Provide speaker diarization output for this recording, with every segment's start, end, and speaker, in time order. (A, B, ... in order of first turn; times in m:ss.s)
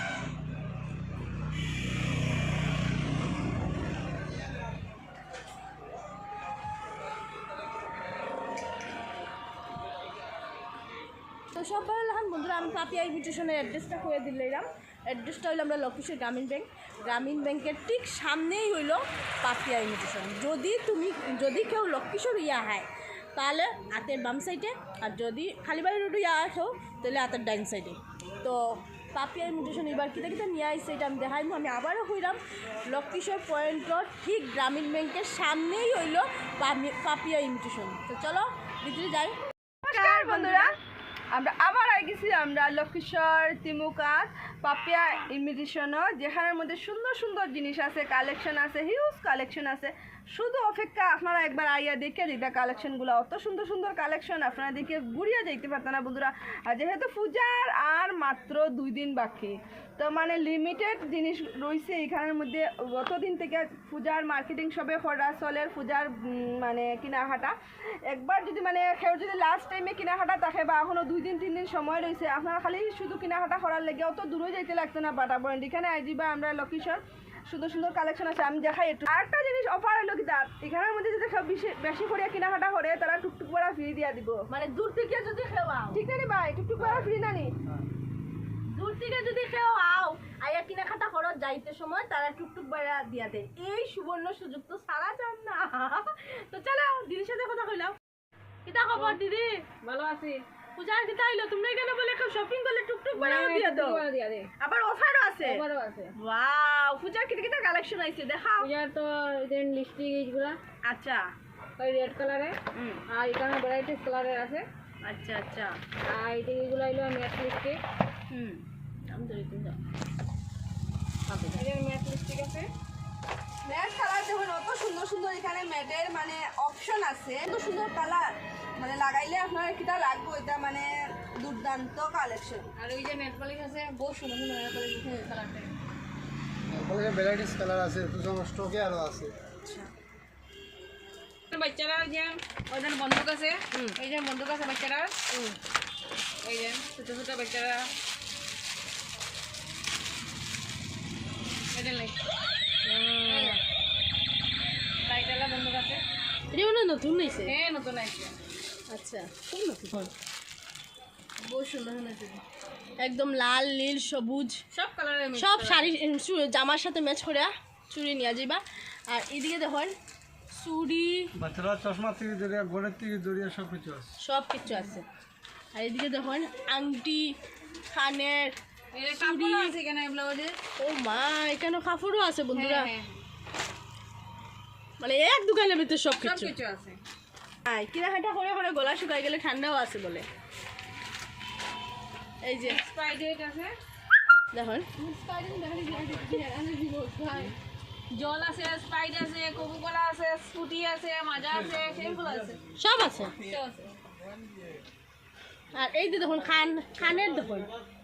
0:11.5-0:39.4 A
0:39.8-0:40.7 B
0:39.9-0:40.7 A
0:41.3-1:07.5 B
1:08.1-1:24.4 B
1:24.5-1:26.0 A
1:25.9-1:27.5 B
1:26.8-1:27.1 A
1:28.7-1:38.0 A
1:38.7-1:39.7 A
1:39.8-1:40.4 C
1:40.8-1:44.0 A
1:43.1-1:44.5 C
1:44.6-1:45.6 B
1:44.7-1:45.3 A
1:45.4-1:46.1 C
1:46.2-1:47.4 A
1:47.2-1:48.7 B
1:48.6-1:50.6 C
1:50.9-1:51.3 A
1:51.8-1:52.6 C
1:53.1-1:54.7 C
1:55.0-1:55.8 A
1:56.1-1:57.8 C
1:58.3-1:59.8 A
2:01.3-2:01.6 A
2:01.6-2:02.7 C
2:03.6-2:12.7 B
2:12.8-2:15.7 C
2:16.7-2:19.4 D
2:19.6-2:19.9 A
2:21.5-2:25.2 C
2:23.7-2:24.0 A
2:25.3-2:25.6 A
2:26.4-2:27.9 C
2:31.7-2:32.2 C
2:32.8-2:33.6 A
2:33.2-2:33.6 C
2:35.0-2:36.0 C
2:36.5-2:37.6 A
2:37.4-2:38.4 C
2:38.9-2:40.1 A
2:41.4-2:42.4 C
2:43.0-2:44.6 A
2:44.7-2:45.9 C
2:45.4-2:50.0 A
2:50.5-2:51.3 A
2:51.4-2:54.1 D
2:54.2-2:55.0 A
2:55.7-2:57.4 A
2:57.9-2:58.6 A
2:59.0-3:00.6 C
2:59.1-2:59.8 A
3:00.8-3:02.9 A
3:02.5-3:03.2 C
3:05.0-3:06.5 A
3:06.2-3:07.0 C
3:07.6-3:10.3 A
3:12.4-3:12.8 A
3:12.6-3:13.8 C
3:14.5-3:14.9 A
3:15.0-3:17.6 C
3:18.1-3:22.6 C
3:22.8-3:23.4 A
3:23.4-3:23.9 C
3:25.7-3:27.7 A